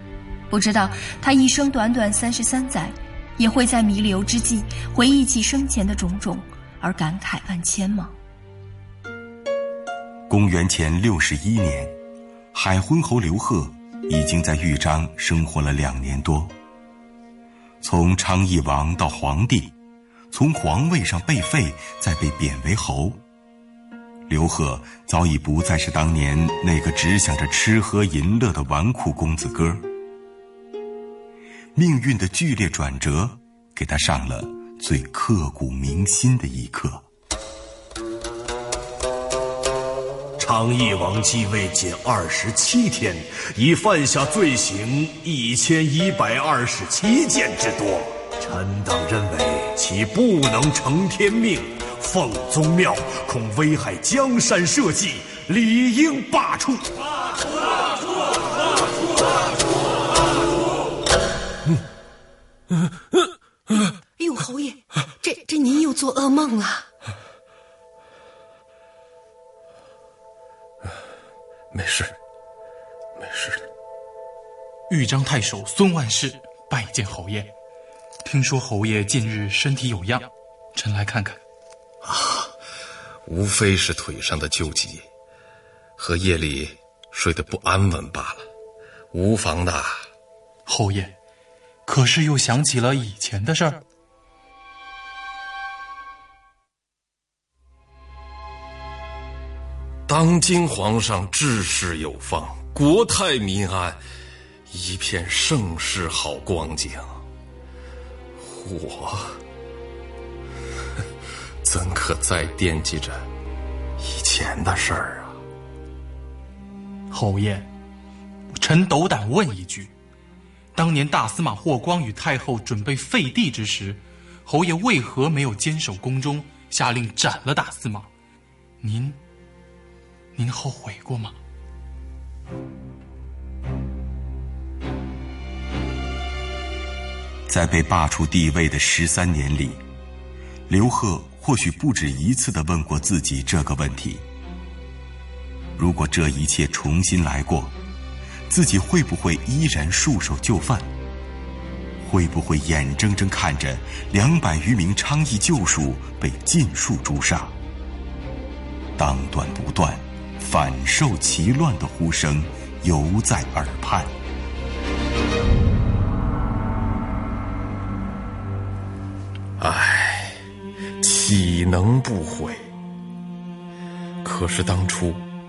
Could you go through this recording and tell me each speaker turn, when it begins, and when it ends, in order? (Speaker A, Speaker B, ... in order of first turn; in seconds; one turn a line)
Speaker A: 0.5-8.1
Speaker B: 10.3-11.9
Speaker B: 12.5-16.5
Speaker B: 17.8-19.7
Speaker B: 20.3-23.2
Speaker B: 24.3-29.9
Speaker B: 31.8-37.0
Speaker C: 40.4-57.0
Speaker D: 64.2-66.9
Speaker E: 71.7-72.2
Speaker E: 73.2-73.7
Speaker F: 74.9-77.5
Speaker F: 78.2-81.4
Speaker E: 82.0-82.5
Speaker E: 83.3-85.1
Speaker E: 86.0-88.5
Speaker E: 89.1-90.1
Speaker F: 90.7-91.1
Speaker F: 91.9-93.8
Speaker E: 100.1-104.0
Speaker E: 104.7-107.2
Speaker E: 108.4-109.4
Speaker E: 111.6-113.3
Speaker E: 114.0-115.4
Speaker F: 117.1-117.7
Speaker F: 118.6-119.9
Speaker F: 120.8-128.1
Speaker F: 128.8-129.2
Speaker F: 130.3-131.4
Speaker B: 137.5-139.8
Speaker B: 140.7-144.2
Speaker B: 145.8-147.7
Speaker B: 148.5-150.9
Speaker B: 152.0-157.5
Speaker B: 159.0-164.1
Speaker E: 169.6-170.4
Speaker E: 171.0-172.7
Speaker E: 174.2-175.3